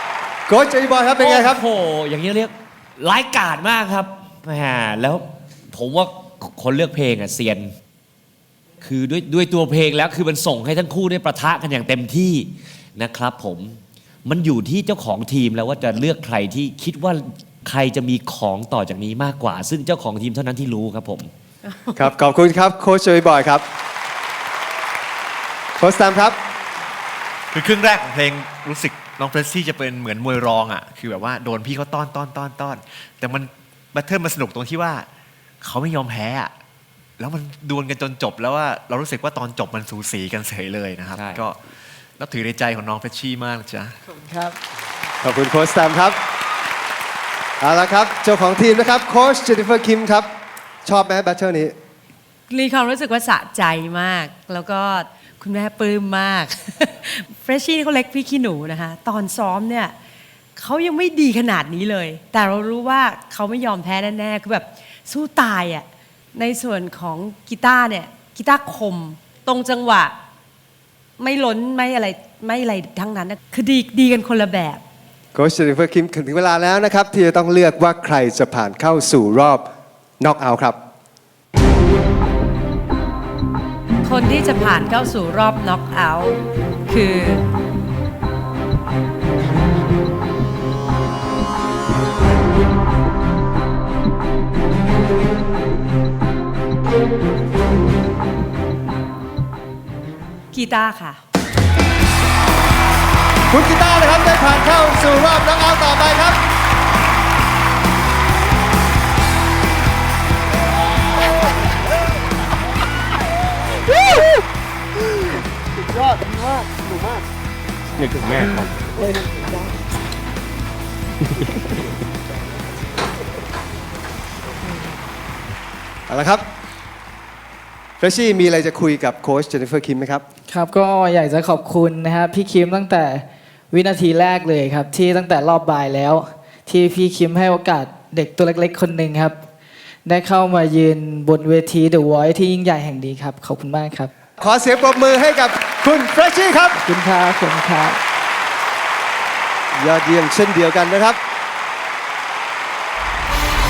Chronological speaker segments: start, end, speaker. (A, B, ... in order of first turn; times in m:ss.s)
0:00.5-0:01.6 A
0:01.2-0:07.7 B
0:08.8-0:21.3 B
0:21.9-0:23.6 A
0:25.8-0:26.4 A
0:27.5-0:35.1 C
0:35.6-0:36.5 C
0:37.2-0:41.6 C
0:41.1-0:41.5 B
0:42.2-0:43.9 C
0:44.2-0:44.5 D
0:45.2-0:46.2 A
0:47.6-0:50.3 A
0:50.8-0:51.7 A
0:52.5-0:59.9 E
1:00.6-1:10.1 E
1:11.2-1:14.8 E
1:15.3-1:19.6 A
1:20.2-1:20.8 A
1:24.0-1:27.4 E
1:40.5-1:41.2 E
1:43.5-1:46.4 A
1:58.1-1:58.6 A
2:06.1-2:06.4 A
2:08.0-2:10.2 A
2:10.5-2:19.4 D
2:20.0-2:24.1 D
2:24.4-2:26.8 A
2:26.8-2:28.0 D
2:29.7-2:31.2 A